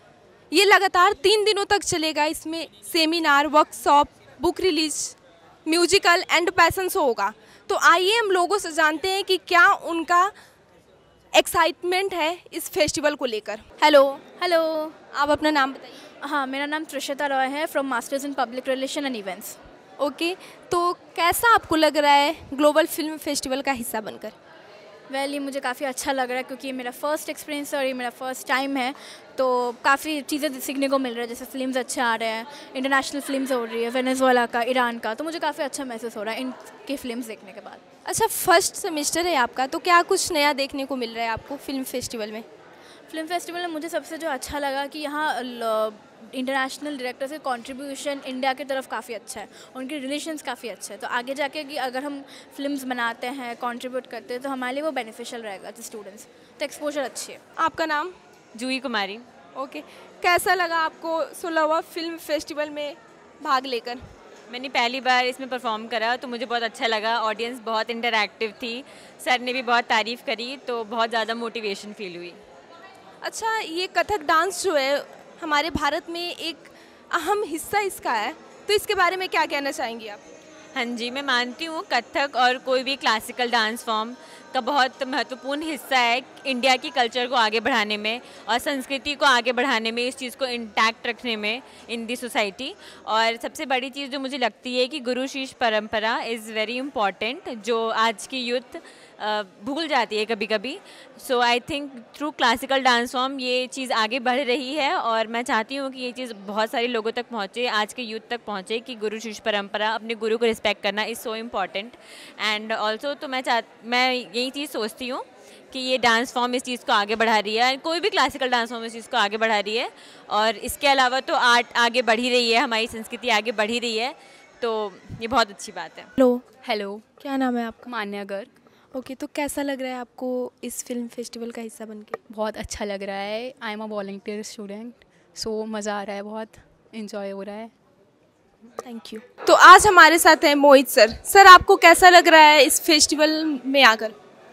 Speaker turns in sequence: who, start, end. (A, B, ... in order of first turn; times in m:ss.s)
0:00.5-0:10.3 A
0:11.3-0:14.2 A
0:14.4-0:15.0 B
0:15.1-0:16.0 A
0:16.2-0:19.6 B
0:20.0-0:24.4 A
0:25.1-0:37.8 B
0:38.1-0:42.4 A
0:43.1-0:57.4 B
0:57.6-0:58.2 A
0:58.5-0:59.2 C
0:59.6-1:04.0 A
1:04.5-1:12.4 C
1:13.2-1:20.2 A
1:20.8-2:06.1 C
2:06.2-2:06.4 A
2:06.6-2:07.1 D
2:07.2-2:07.8 A
2:07.8-2:08.5 D
2:08.9-2:12.2 A
2:12.3-2:17.7 D
2:18.8-2:24.2 A